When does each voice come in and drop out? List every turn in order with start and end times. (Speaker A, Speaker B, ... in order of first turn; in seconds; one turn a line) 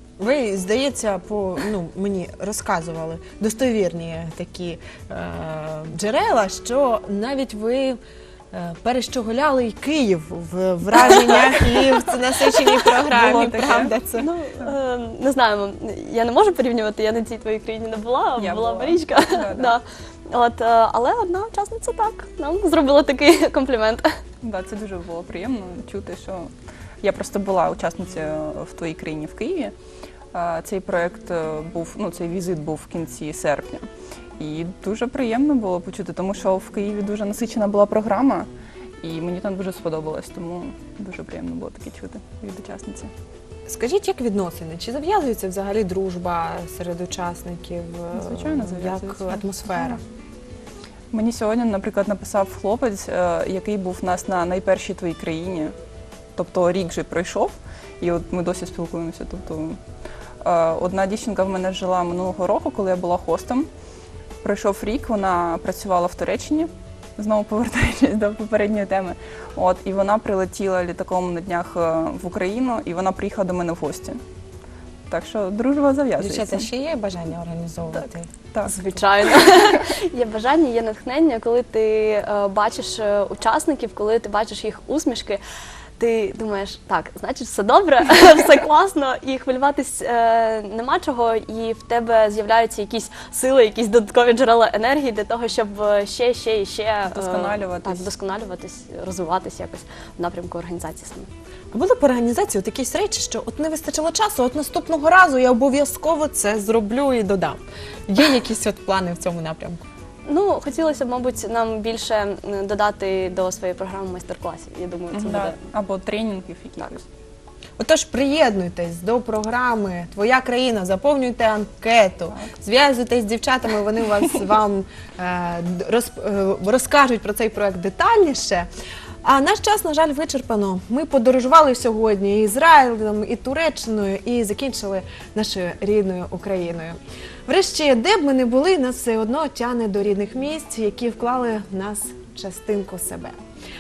Speaker A: 0.2-8.0
Speaker A: 8.5-14.3
Speaker B: 13.1-14.0
Speaker C: 14.2-24.1
Speaker B: 18.4-19.8
Speaker B: 24.4-26.5
Speaker B: 27.0-29.7
Speaker B: 30.3-33.9
Speaker B: 34.4-38.5
Speaker B: 39.0-43.1
Speaker A: 43.7-50.0
Speaker B: 48.1-50.0
Speaker B: 51.1-55.7
Speaker B: 56.4-59.8
Speaker B: 60.4-63.7
Speaker B: 64.4-74.2
Speaker B: 75.1-76.7
Speaker A: 76.2-78.3
Speaker C: 78.6-85.4
Speaker C: 86.0-101.3
Speaker B: 97.1-98.1
Speaker A: 101.7-109.8
Speaker C: 110.2-115.6
Speaker B: 115.1-117.0
Speaker A: 117.8-128.7
Speaker A: 129.2-143.4